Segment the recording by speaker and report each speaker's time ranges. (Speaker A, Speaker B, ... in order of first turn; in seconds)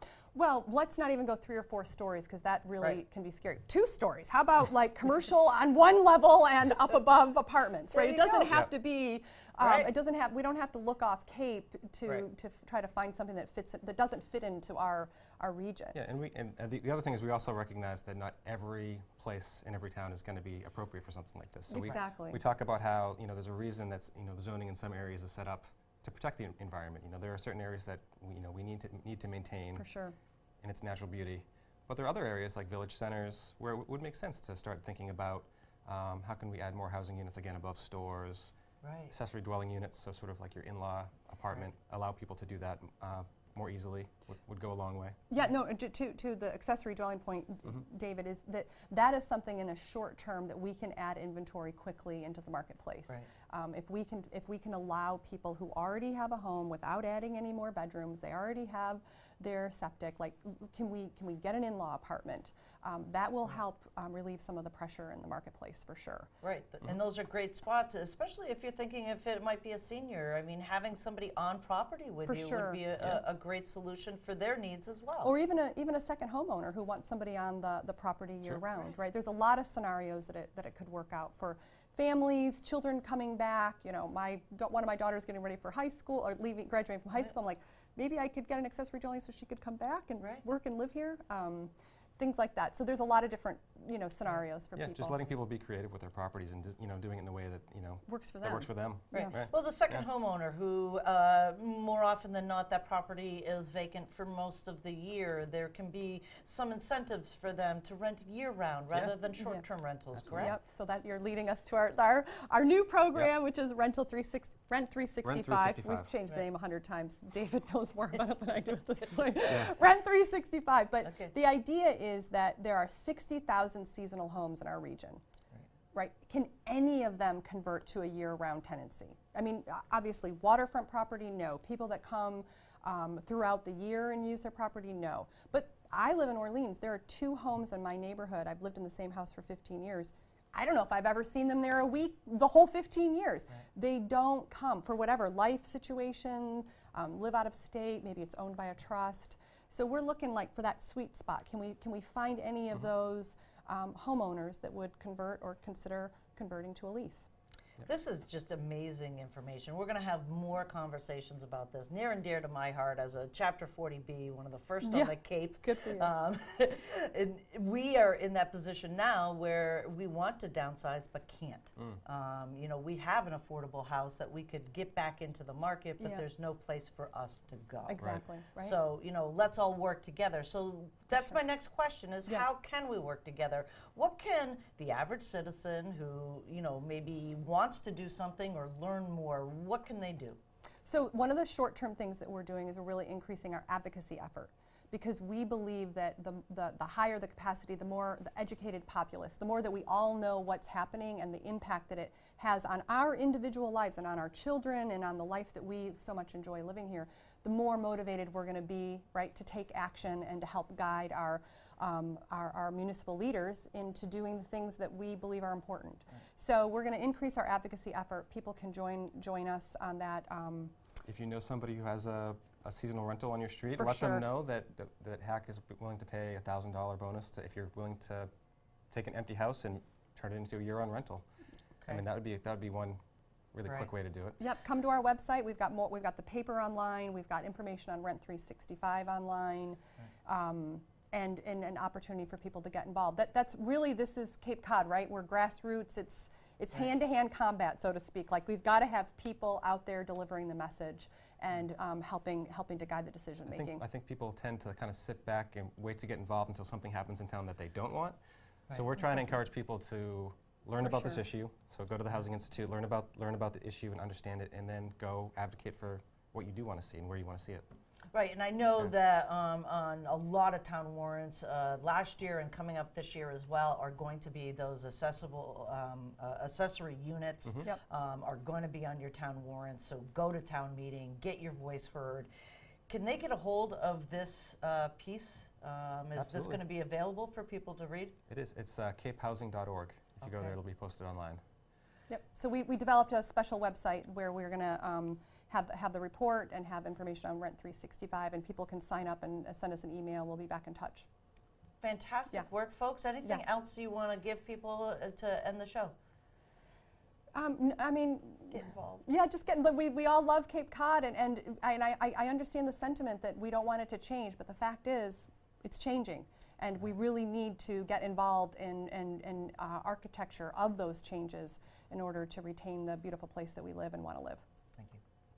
Speaker A: 0.3-16.0, 21.7-22.4, 29.8-30.1, 45.3-66.3, 72.2-72.8, 75.2-95.2, 98.0-99.5, 109.4-109.6, 110.3-125.2, 125.9-157.3, 164.8-166.1, 176.0-176.2, 177.8-178.8, 181.1-181.4, 190.8-220.7, 223.8-224.3, 234.4-253.8, 260.8-261.2, 292.1-301.1, 307.3-324.4
Speaker B: 7.9-8.6, 9.6-9.9, 38.8-39.1, 66.4-75.3, 99.1-110.5, 121.0-121.3, 157.8-190.4, 233.7-233.9, 268.1-282.3, 282.9-288.1, 290.2-290.5, 301.8-305.9, 308.5-309.0, 324.8-325.0
Speaker C: 15.9-29.8, 30.6-38.5, 39.1-45.2, 94.7-100.0, 110.2-110.5, 115.2-116.1, 221.0-228.3, 228.9-231.2, 231.9-233.0, 233.5-234.4, 253.5-258.2, 258.7-267.6, 286.1-286.6, 288.3-291.4